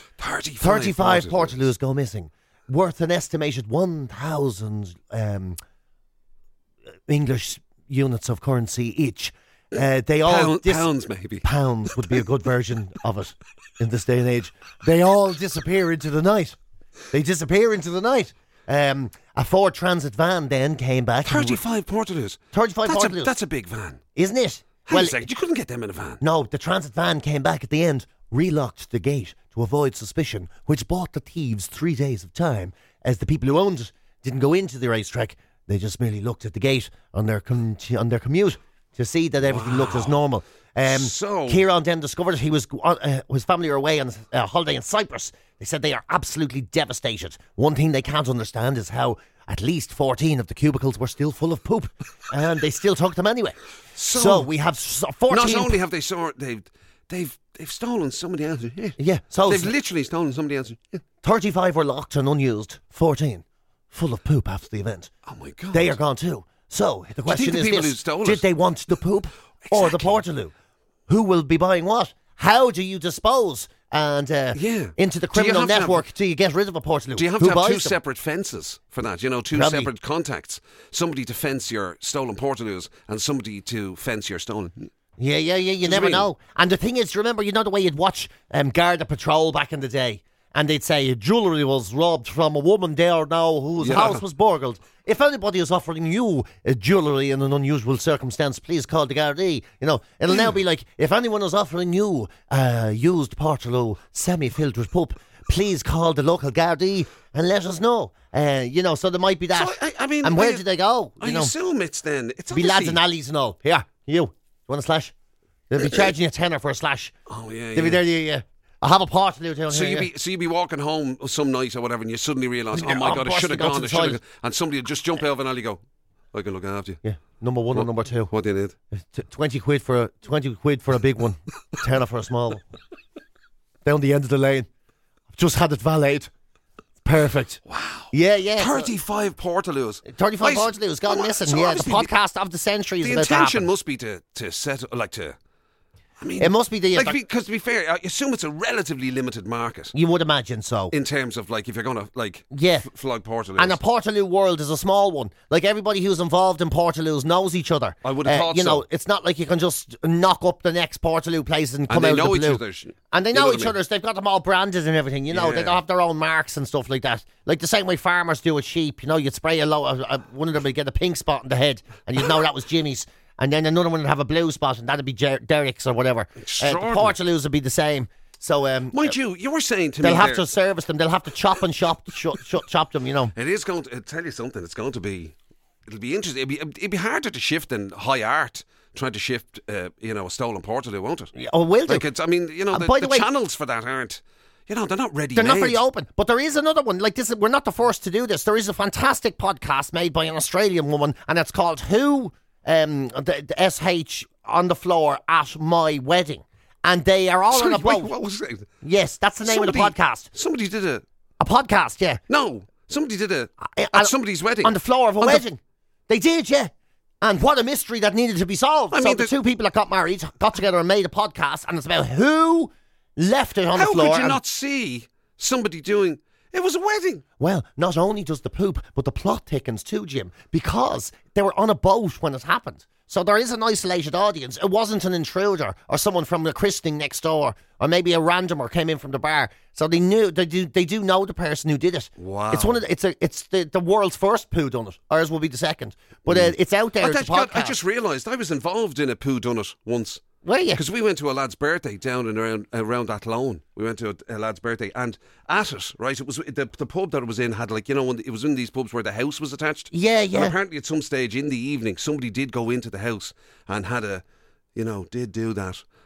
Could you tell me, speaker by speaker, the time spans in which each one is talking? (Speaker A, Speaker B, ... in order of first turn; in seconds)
Speaker A: 0.2-1.6, 10.2-11.4, 21.2-24.0, 24.9-26.2, 39.5-40.2, 40.8-41.6, 53.9-54.5, 55.3-61.0, 65.3-66.0, 67.3-68.5, 69.6-70.2, 74.5-76.0, 77.2-84.9, 85.8-86.3, 93.8-94.2, 109.5-110.7, 111.2-113.0, 117.3-118.0, 119.7-125.8, 126.3-127.0, 127.7-128.8, 137.7-142.1, 143.0-145.4, 146.2-149.9, 150.9-153.8, 158.0-158.8, 161.9-163.8, 165.3-165.8, 176.4-177.2, 178.9-180.5, 183.3-185.3, 185.9-191.3, 191.9-195.8, 207.5-208.7, 209.4-211.0, 212.3-215.4, 218.9-219.3, 223.7-227.2, 242.2-242.8, 246.3-264.2, 264.8-265.8
Speaker B: 0.6-5.6, 7.1-10.9, 11.4-16.6, 17.1-21.6, 22.5-23.3, 24.2-25.2, 26.2-53.6, 54.1-55.8, 59.0-59.7, 61.2-65.1, 65.7-70.5, 71.1-78.0, 79.5-79.9, 85.2-111.5, 112.5-115.1, 115.7-117.1, 117.7-120.1, 122.7-124.2, 127.0-128.3, 128.9-132.6, 133.8-134.7, 135.3-136.3, 137.0-137.6, 138.1-138.9, 140.1-143.7, 146.4-147.2, 149.9-150.9, 152.5-152.9, 153.6-179.2, 180.0-183.3, 191.4-192.1, 192.7-193.3, 195.3-208.1, 208.8-210.3, 211.4-212.2, 213.6-224.4, 227.4-247.8, 250.4-250.8, 259.9-260.6